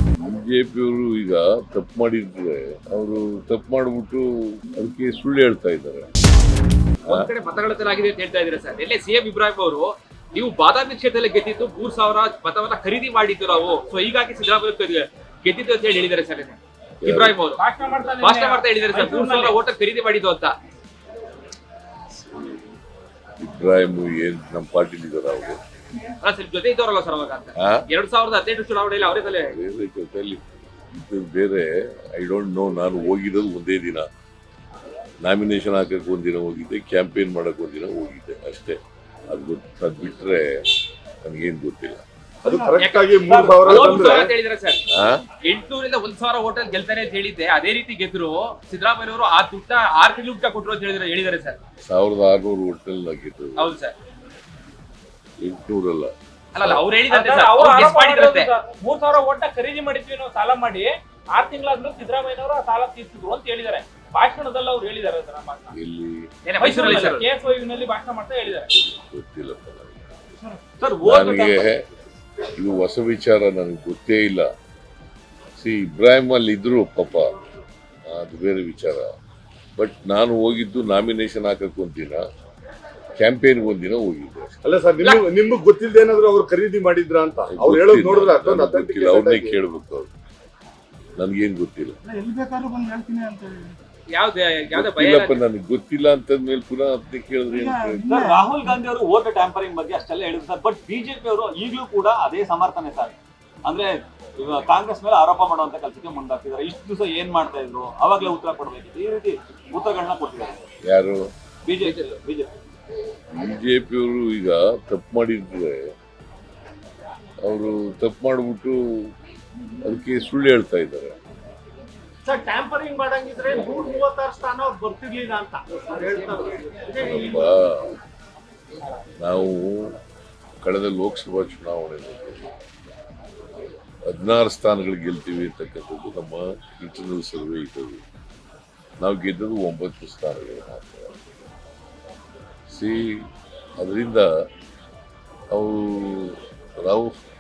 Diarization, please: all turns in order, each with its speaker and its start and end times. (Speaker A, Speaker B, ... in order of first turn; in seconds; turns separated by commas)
Speaker A: 0.2-6.1, Speaker B: 7.0-17.6, Speaker A: 17.0-17.4, Speaker C: 17.6-19.6, Speaker B: 18.2-20.5, Speaker A: 22.1-22.7, Speaker A: 23.4-25.6, Speaker B: 26.2-29.5, Speaker A: 27.6-27.8, Speaker A: 29.4-34.0, Speaker A: 35.2-38.8, Speaker A: 39.3-40.6, Speaker A: 41.2-42.0, Speaker D: 42.4-44.3, Speaker B: 42.8-44.8, Speaker E: 43.3-44.3, Speaker A: 44.9-45.2, Speaker B: 45.5-51.6, Speaker A: 51.9-53.8, Speaker B: 53.6-54.0, Speaker A: 55.4-56.8, Speaker B: 56.5-58.5, Speaker C: 57.1-65.8, Speaker A: 65.7-66.3, Speaker B: 66.5-67.3, Speaker C: 66.6-68.7, Speaker A: 68.6-70.0, Speaker E: 70.8-71.6, Speaker A: 71.0-71.8, Speaker A: 72.5-74.5, Speaker A: 75.6-77.2, Speaker A: 78.1-79.0, Speaker A: 79.8-82.2, Speaker A: 83.2-84.6, Speaker D: 84.6-89.6, Speaker A: 87.5-90.1, Speaker A: 91.2-92.0, Speaker F: 92.0-93.7, Speaker B: 94.1-95.4, Speaker A: 94.7-98.3, Speaker F: 97.6-98.4, Speaker E: 98.1-110.6, Speaker A: 110.9-111.2, Speaker E: 111.7-112.5, Speaker B: 111.8-112.2, Speaker A: 113.3-115.8, Speaker A: 117.4-118.8, Speaker A: 119.8-121.2, Speaker F: 122.2-127.4, Speaker A: 127.0-127.9, Speaker A: 129.2-129.9, Speaker A: 130.6-132.5, Speaker A: 134.1-138.0, Speaker A: 139.0-141.2, Speaker A: 142.7-143.2, Speaker A: 143.8-144.3, Speaker A: 145.5-147.2